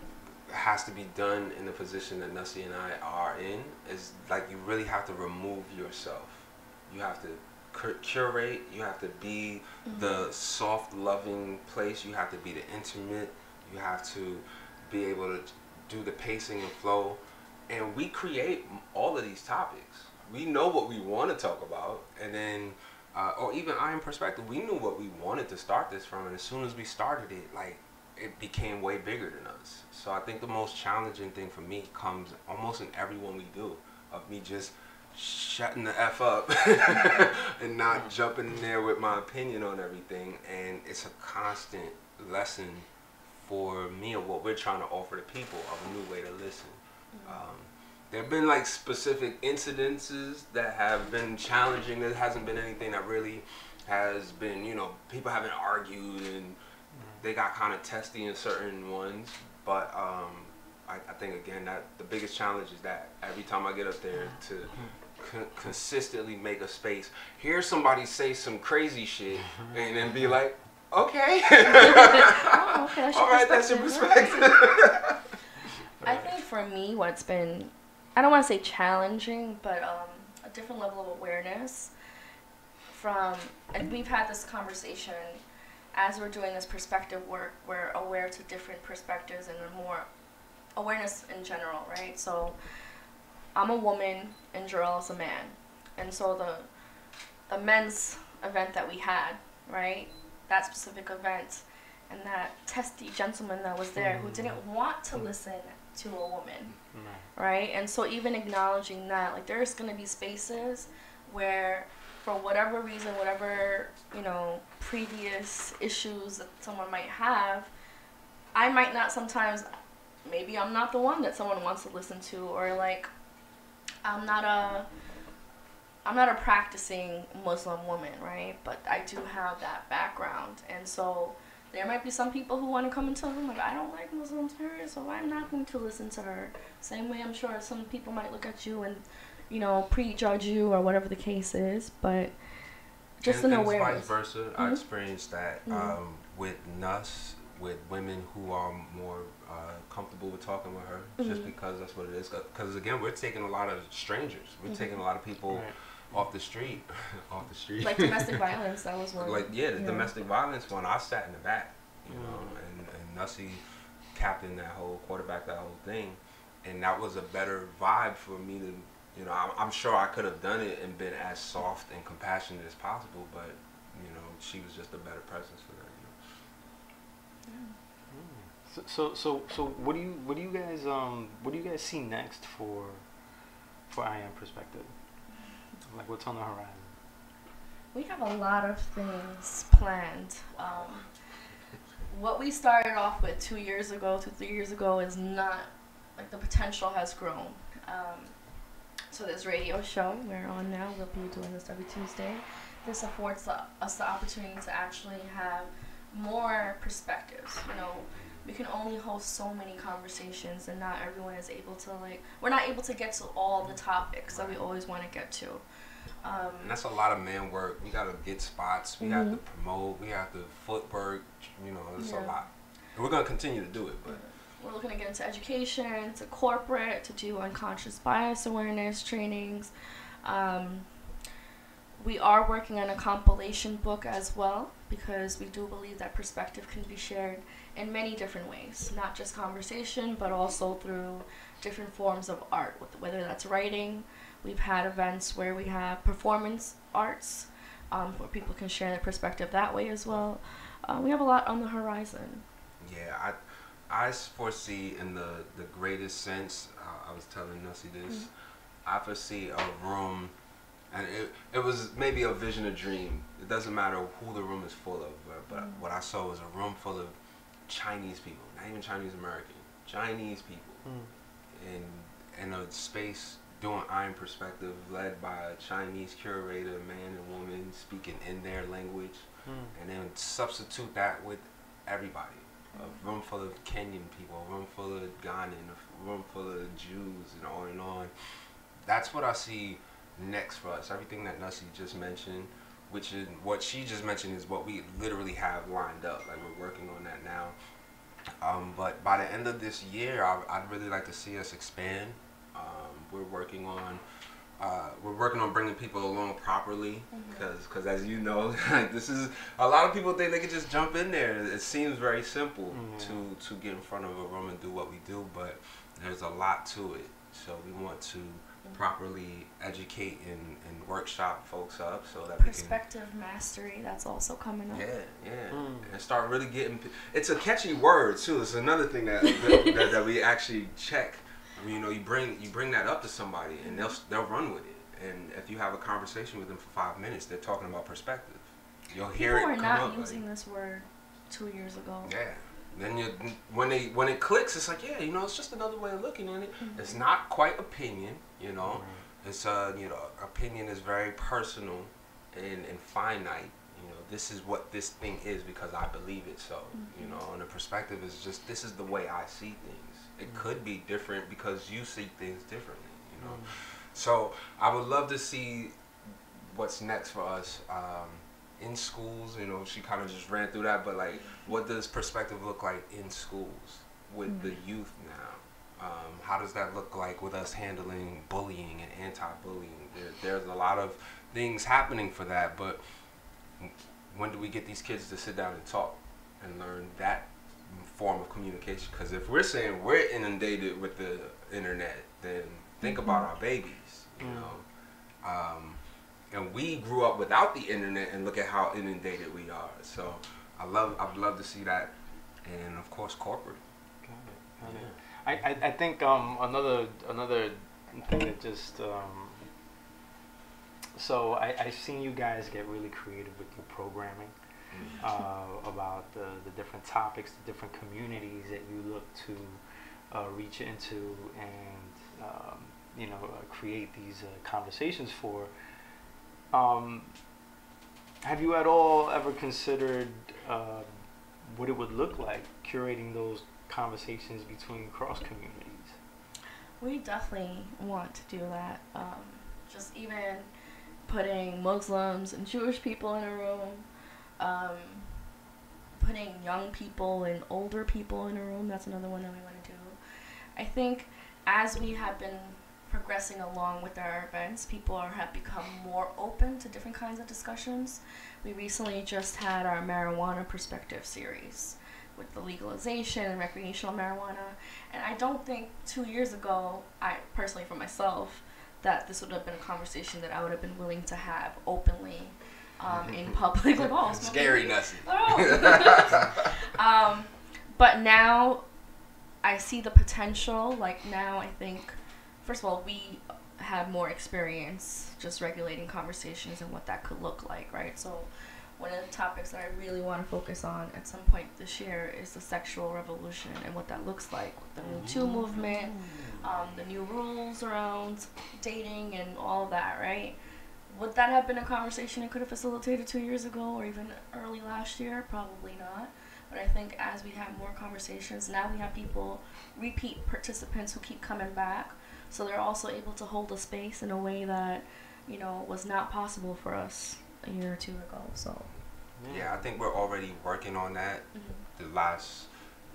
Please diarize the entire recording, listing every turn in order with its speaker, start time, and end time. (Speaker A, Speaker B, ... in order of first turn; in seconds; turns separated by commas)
Speaker A: 0.5-56.6, Speaker B: 9.9-10.2, Speaker B: 47.1-47.4, Speaker C: 57.0-57.2, Speaker A: 57.2-75.4, Speaker B: 71.7-74.6, Speaker A: 76.0-76.3, Speaker B: 76.0-81.9, Speaker B: 82.9-85.4, Speaker B: 85.9-90.1, Speaker B: 90.8-92.6, Speaker B: 93.5-96.7, Speaker B: 97.5-106.7, Speaker C: 104.0-104.6, Speaker C: 106.9-107.3, Speaker B: 107.3-117.7, Speaker B: 118.5-119.7, Speaker B: 120.2-123.1, Speaker B: 124.0-124.9, Speaker B: 126.0-142.3, Speaker B: 143.2-144.8, Speaker A: 143.2-158.5, Speaker B: 145.7-146.0, Speaker B: 151.2-151.5, Speaker B: 154.7-155.0, Speaker C: 155.5-155.7, Speaker B: 157.8-160.1, Speaker A: 159.2-176.2, Speaker C: 162.1-162.4, Speaker B: 177.5-177.8, Speaker C: 178.1-183.1, Speaker C: 183.9-184.9, Speaker C: 185.8-187.0, Speaker B: 187.9-191.1, Speaker B: 192.1-198.4, Speaker B: 199.1-215.6, Speaker A: 214.3-214.6, Speaker B: 216.2-216.8, Speaker A: 216.6-224.2, Speaker B: 219.0-219.4, Speaker B: 222.0-222.4, Speaker B: 224.1-229.7, Speaker B: 230.2-230.9, Speaker B: 232.0-252.4, Speaker A: 252.8-258.3, Speaker A: 258.9-260.3, Speaker A: 260.9-270.8, Speaker B: 265.5-265.8, Speaker C: 270.9-271.1, Speaker A: 271.6-288.3, Speaker C: 279.5-279.7, Speaker A: 288.8-297.6, Speaker A: 298.4-304.0, Speaker A: 304.6-322.8, Speaker B: 307.1-307.5, Speaker C: 312.7-313.3, Speaker B: 322.4-324.9, Speaker A: 324.7-340.2, Speaker C: 325.5-325.9, Speaker B: 329.3-329.6, Speaker B: 333.6-333.9, Speaker B: 339.1-342.1, Speaker A: 342.1-365.8, Speaker B: 346.6-347.0, Speaker C: 348.6-349.0, Speaker B: 356.8-357.2, Speaker C: 363.2-363.6, Speaker A: 366.3-382.8, Speaker B: 374.3-374.6, Speaker A: 383.6-394.6, Speaker B: 392.8-393.3, Speaker C: 394.2-394.5, Speaker A: 395.2-401.9, Speaker A: 402.4-403.6, Speaker C: 404.0-409.5, Speaker A: 404.6-405.0, Speaker C: 411.0-414.3, Speaker A: 414.7-415.0, Speaker C: 415.0-425.5, Speaker C: 426.5-427.1, Speaker C: 428.2-430.9, Speaker C: 431.4-436.0, Speaker B: 436.8-440.5, Speaker B: 441.1-443.9, Speaker B: 444.4-445.3, Speaker B: 445.9-450.0, Speaker B: 450.6-478.6, Speaker A: 472.9-473.4, Speaker A: 474.1-476.5, Speaker B: 479.4-518.7, Speaker C: 519.2-519.6, Speaker A: 519.3-522.5, Speaker B: 521.3-521.6